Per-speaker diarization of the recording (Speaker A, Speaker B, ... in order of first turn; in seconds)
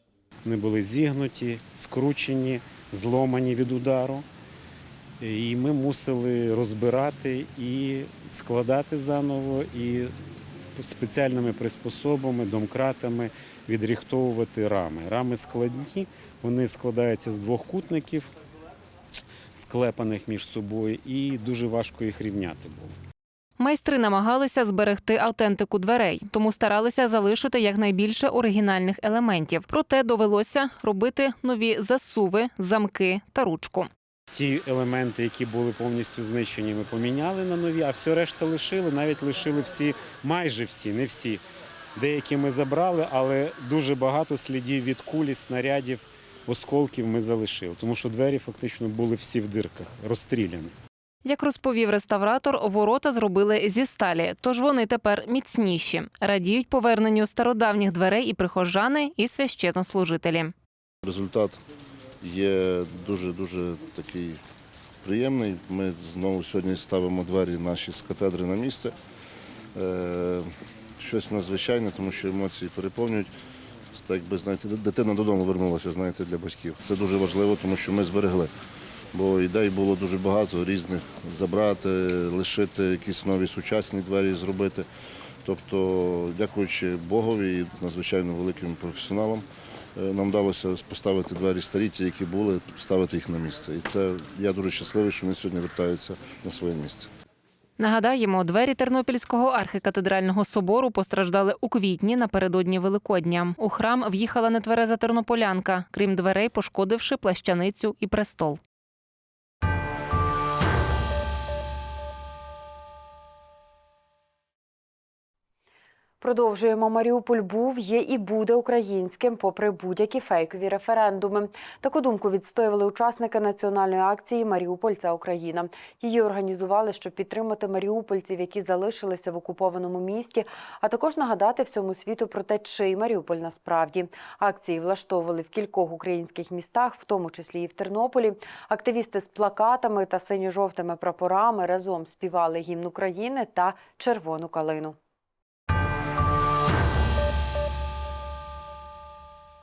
Speaker A: 0.5-4.2, 5.2-10.1, 10.8-18.3, 19.6-22.9, 34.3-41.4, 42.0-50.7
Speaker B: 23.6-33.9, 51.2-60.5, 97.8-108.6
Speaker C: 61.0-61.6, 62.2-64.4, 65.0-68.9, 69.7-73.3, 73.9-78.5, 79.1-84.9, 85.4-97.1
Speaker D: 116.2-145.0